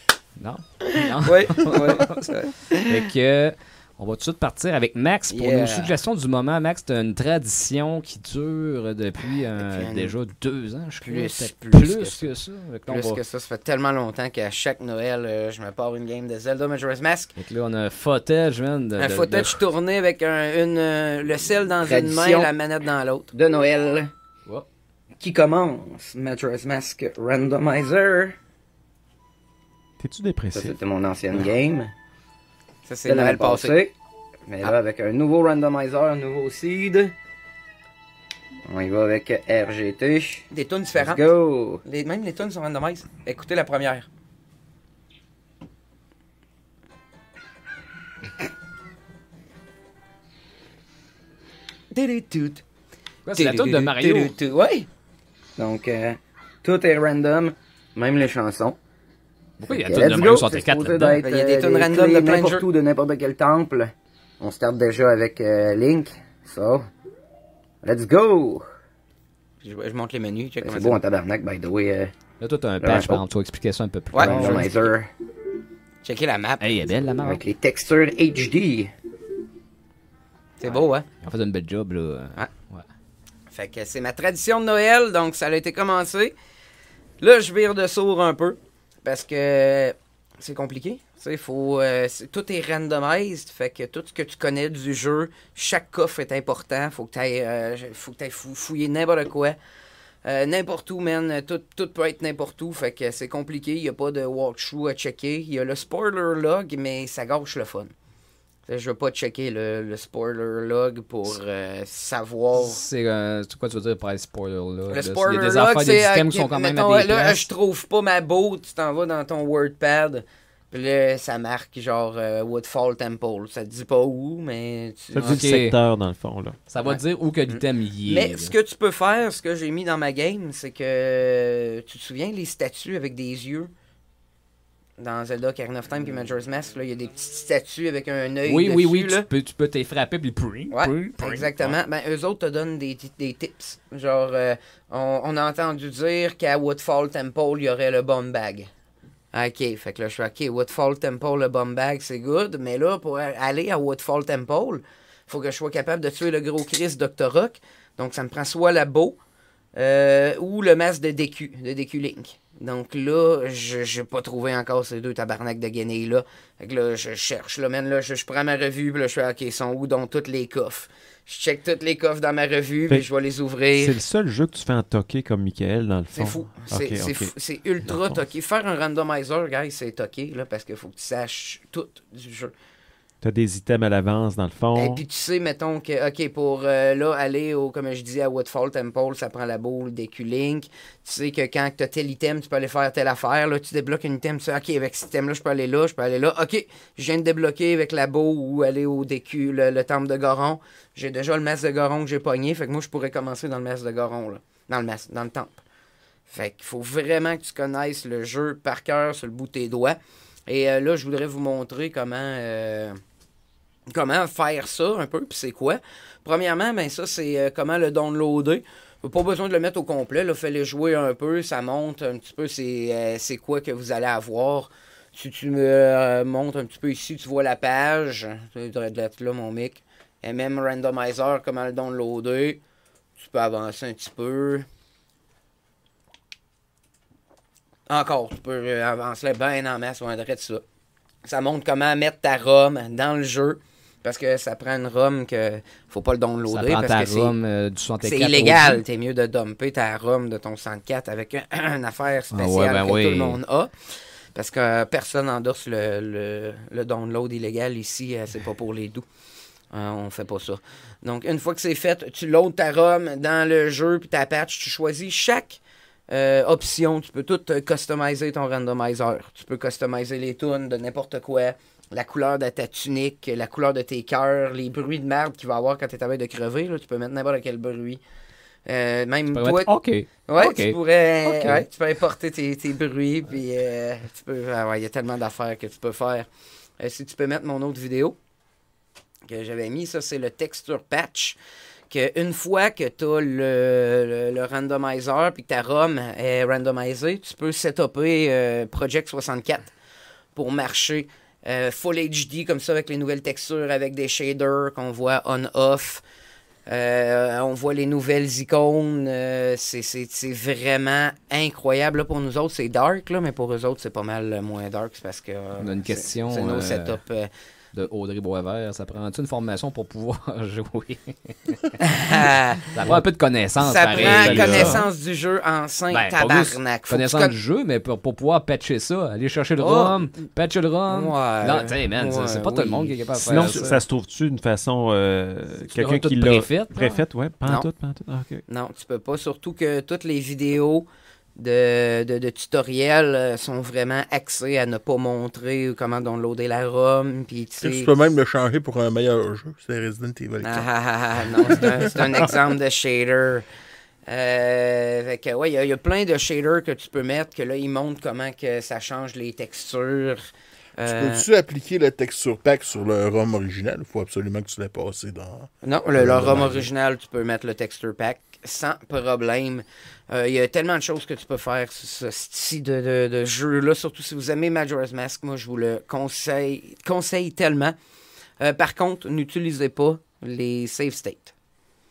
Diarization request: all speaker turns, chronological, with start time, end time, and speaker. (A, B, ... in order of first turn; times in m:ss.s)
0:00.4-0:13.2 A
0:01.1-0:02.8 B
0:05.3-0:06.0 B
0:09.6-0:10.1 B
0:11.0-0:12.3 B
0:12.9-0:17.3 B
0:17.4-0:19.6 A
0:19.0-0:23.4 B
0:21.8-0:22.5 C
0:23.3-0:24.1 C
0:25.2-0:28.3 C
0:30.0-0:30.8 D
0:30.5-0:31.9 C
0:32.9-0:33.8 B
0:33.0-0:33.9 C
0:34.5-0:37.1 C
0:38.7-0:41.8 C
0:40.5-0:41.3 B
0:41.9-0:44.1 B
0:51.9-0:52.6 B
0:53.3-0:54.3 A
0:53.3-0:54.9 B
0:55.6-0:58.8 C
0:59.6-1:01.2 A
0:59.7-1:06.9 C
1:01.2-1:02.7 B
1:07.8-1:08.7 C
1:09.6-1:11.0 B
1:10.6-1:12.1 C
1:12.4-1:14.9 A
1:12.8-1:13.2 C
1:14.1-1:14.8 B
1:14.2-1:15.1 C
1:16.0-1:16.8 B
1:16.6-1:17.4 A
1:17.2-1:18.9 C
1:20.6-1:21.1 B
1:20.7-1:22.9 A
1:23.5-1:26.4 B
1:27.2-1:39.6 B
1:40.2-1:47.9 B
1:48.7-1:52.8 B
1:52.6-1:57.5 A
1:54.9-2:05.4 B
2:05.1-2:06.6 D
2:05.2-2:05.8 A
2:06.7-2:08.5 A
2:06.8-2:13.7 B
2:15.0-2:19.3 B
2:18.4-2:21.8 A
2:20.7-2:28.7 B
2:29.3-2:39.2 B
2:39.8-2:54.0 B
2:53.7-2:57.3 D
2:56.1-3:02.5 B
2:57.8-2:58.2 D
3:03.2-3:05.0 D
3:04.8-3:25.6 B
3:26.3-3:33.0 B
3:33.9-3:52.6 B
3:53.2-3:54.7 B
3:57.9-4:00.6 B
4:01.2-4:07.4 B
4:06.5-4:08.8 A
4:08.0-4:19.1 B
4:12.3-4:13.4 A
4:19.7-4:38.0 B
4:38.7-4:39.7 B
4:39.3-4:41.7 A
4:40.3-4:46.3 B
4:46.8-4:48.2 B
4:49.3-4:51.4 B
4:51.9-4:59.7 B
5:00.4-5:06.0 B
5:06.7-5:17.3 B
5:15.6-5:17.0 A
5:17.7-5:21.8 A
5:21.8-5:23.0 B
5:22.7-5:24.8 A
5:23.6-5:27.4 B
5:24.0-5:24.9 D
5:25.9-5:33.8 A
5:29.6-5:30.0 B
5:30.9-5:33.8 B
5:33.2-5:38.4 D
5:35.7-5:37.0 A
5:38.5-5:47.9 B
5:47.6-5:52.3 E
5:50.4-5:53.5 B
5:54.1-6:00.2 B
6:00.8-6:01.2 B
6:00.8-6:06.6 E
6:05.6-6:17.8 B
6:18.4-6:21.3 B